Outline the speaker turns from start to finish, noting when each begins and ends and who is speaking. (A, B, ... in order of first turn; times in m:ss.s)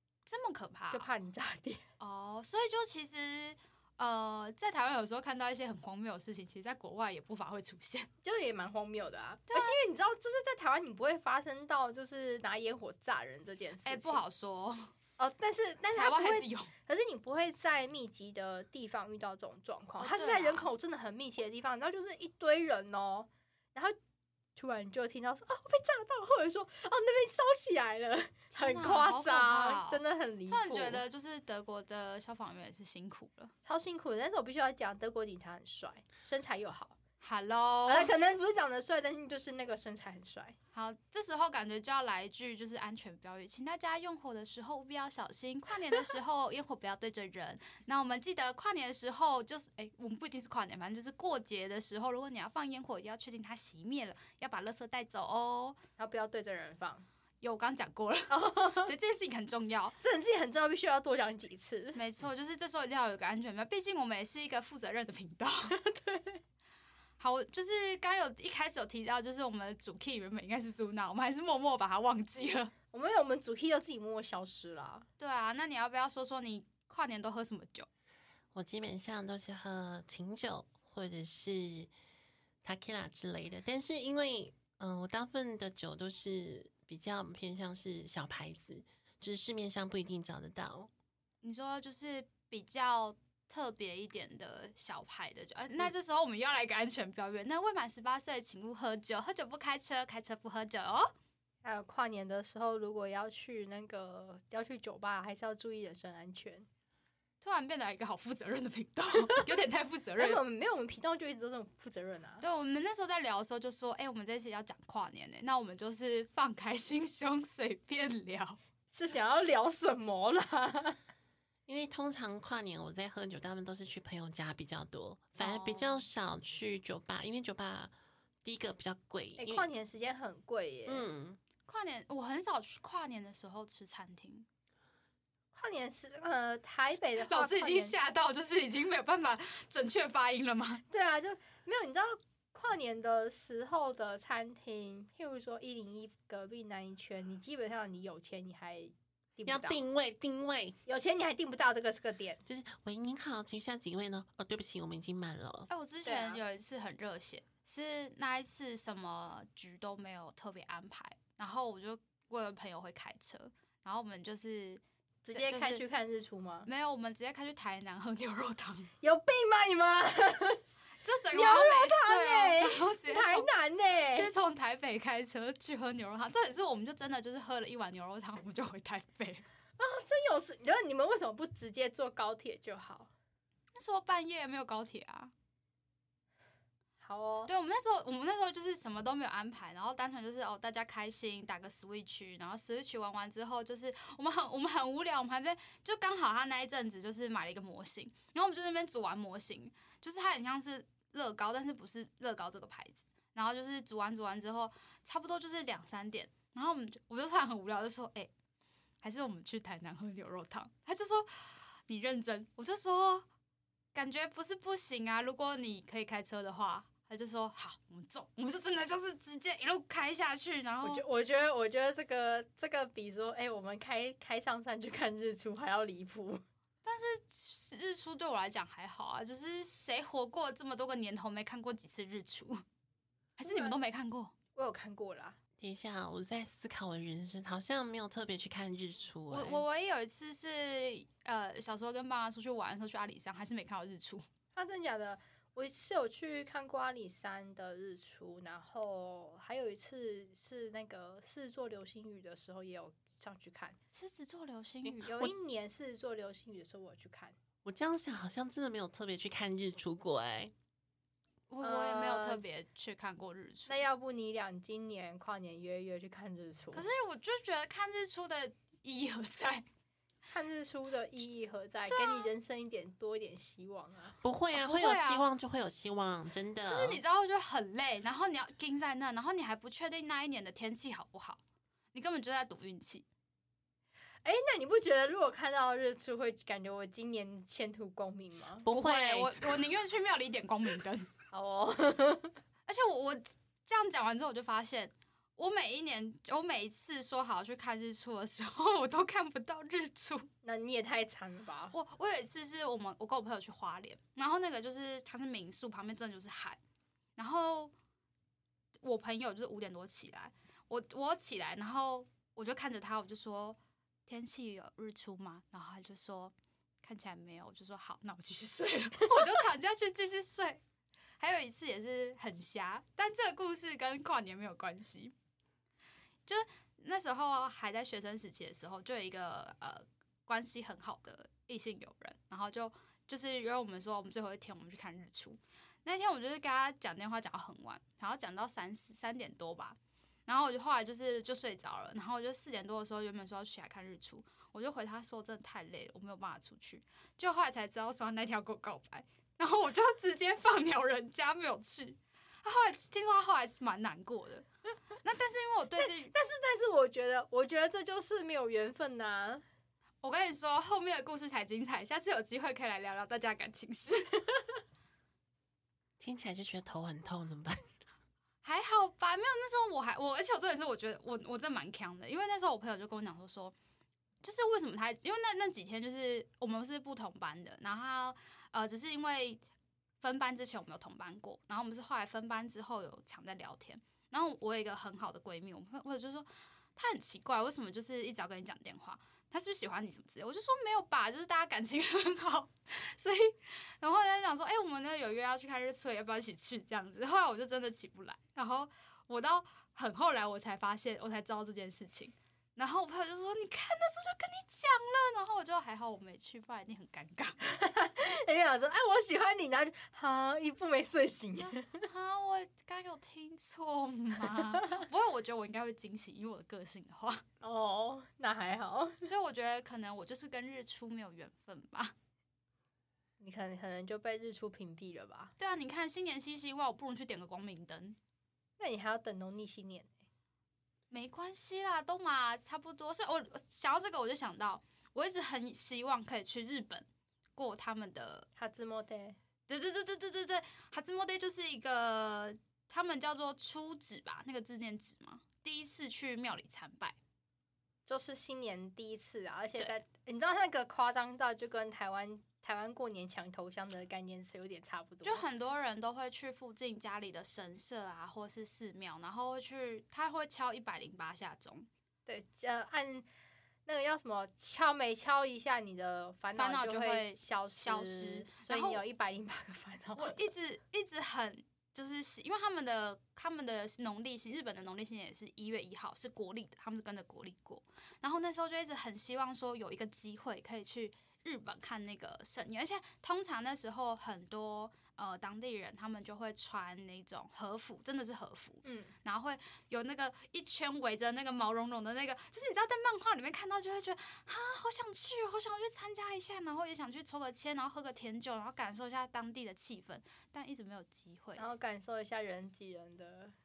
0:00.3-0:01.1 A
0:00.9-0:01.8 B
0:02.0-0:08.1 A
0:08.2-0:14.2 B
0:09.5-0:09.8 A
0:13.8-0:14.9 A
0:15.2-0:24.0 B
0:15.9-0:16.7 A
0:20.0-0:20.7 A
0:24.6-0:31.0 B
0:28.5-0:33.5 A
0:33.6-0:37.0 B
0:37.2-0:38.1 A
0:37.9-0:40.6 B
0:40.7-0:55.8 A
0:56.0-0:57.1 B
0:57.4-1:00.0 A
0:58.3-0:59.0 B
1:00.0-1:02.0 B
1:02.0-1:05.8 A
1:05.7-1:06.4 B
1:07.2-1:12.7 A
1:12.9-1:15.1 B
1:15.2-1:17.9 A
1:18.5-1:21.9 C
1:22.6-1:30.9 C
1:31.4-1:41.1 A
1:41.6-1:46.7 B
1:47.4-1:50.4 A
1:50.2-1:52.4 B
1:52.4-1:58.6 A
1:58.9-2:01.0 B
2:01.7-2:07.9 C
2:05.4-2:06.0 A
2:08.4-2:09.7 C
2:09.4-2:11.1 B
2:10.9-2:11.4 C
2:11.7-2:14.5 A
2:15.5-2:18.0 B
2:17.2-2:20.8 A
2:20.9-2:29.8 B
2:29.5-2:30.8 C
2:30.9-2:32.4 B
2:32.5-2:35.7 C
2:35.7-2:45.8 A
2:36.0-2:36.4 B
2:45.2-2:46.7 B
2:46.7-2:48.9 A
2:49.0-2:50.6 B
2:51.0-2:53.5 A
2:51.3-2:54.3 B
2:54.1-2:59.4 A
2:59.8-3:03.1 B
3:03.8-3:05.3 A
3:07.0-3:07.5 B
3:07.5-3:28.3 A
3:29.0-3:33.3 A
3:33.9-3:41.0 A
3:40.8-3:46.4 B
3:46.8-3:52.6 A
3:53.4-3:54.3 A
3:53.4-3:53.8 B
3:54.6-3:55.4 B
3:55.6-3:59.6 C
3:59.3-4:04.3 A
4:04.5-4:13.8 B
4:13.9-4:15.2 A
4:15.0-4:17.4 B
4:17.6-4:20.5 C
4:21.5-4:23.8 A
4:21.6-4:22.4 B
4:23.7-4:26.9 B
4:26.7-4:29.6 A
4:30.3-4:34.2 B
4:31.9-4:32.3 A
4:34.2-4:37.0 C
4:34.5-4:35.2 A
4:36.7-4:41.4 A
4:41.9-4:43.0 A
4:44.2-4:48.7 B
4:48.6-4:49.6 C
4:48.7-4:51.1 A
4:51.3-4:52.4 B
4:52.7-5:00.3 A
5:00.4-5:01.7 B
5:01.7-5:06.6 A
5:07.2-5:07.7 A
5:08.8-5:20.6 A
5:21.2-5:25.1 A
5:26.3-5:54.4 A
5:55.0-5:56.1 A
5:56.1-5:59.4 B
6:00.0-6:04.2 A
6:06.0-6:07.6 C
6:08.4-6:13.5 A
6:14.2-6:19.4 A
6:20.0-6:47.4 A
6:47.4-6:51.9 B
6:51.4-6:57.2 A
6:54.5-6:54.8 B
6:57.4-6:59.1 B
6:59.0-7:01.9 A
7:03.2-7:05.3 B
7:05.4-7:08.0 A
7:08.6-7:09.9 B
7:10.9-7:18.3 A
7:18.4-7:19.2 B
7:19.5-7:27.0 A
7:27.9-7:35.2 B
7:35.0-7:41.7 A
7:42.1-7:43.1 B
7:43.7-7:50.3 B
7:46.4-7:48.8 A
7:50.0-8:21.5 A
8:08.6-8:09.0 B
8:21.4-8:23.3 B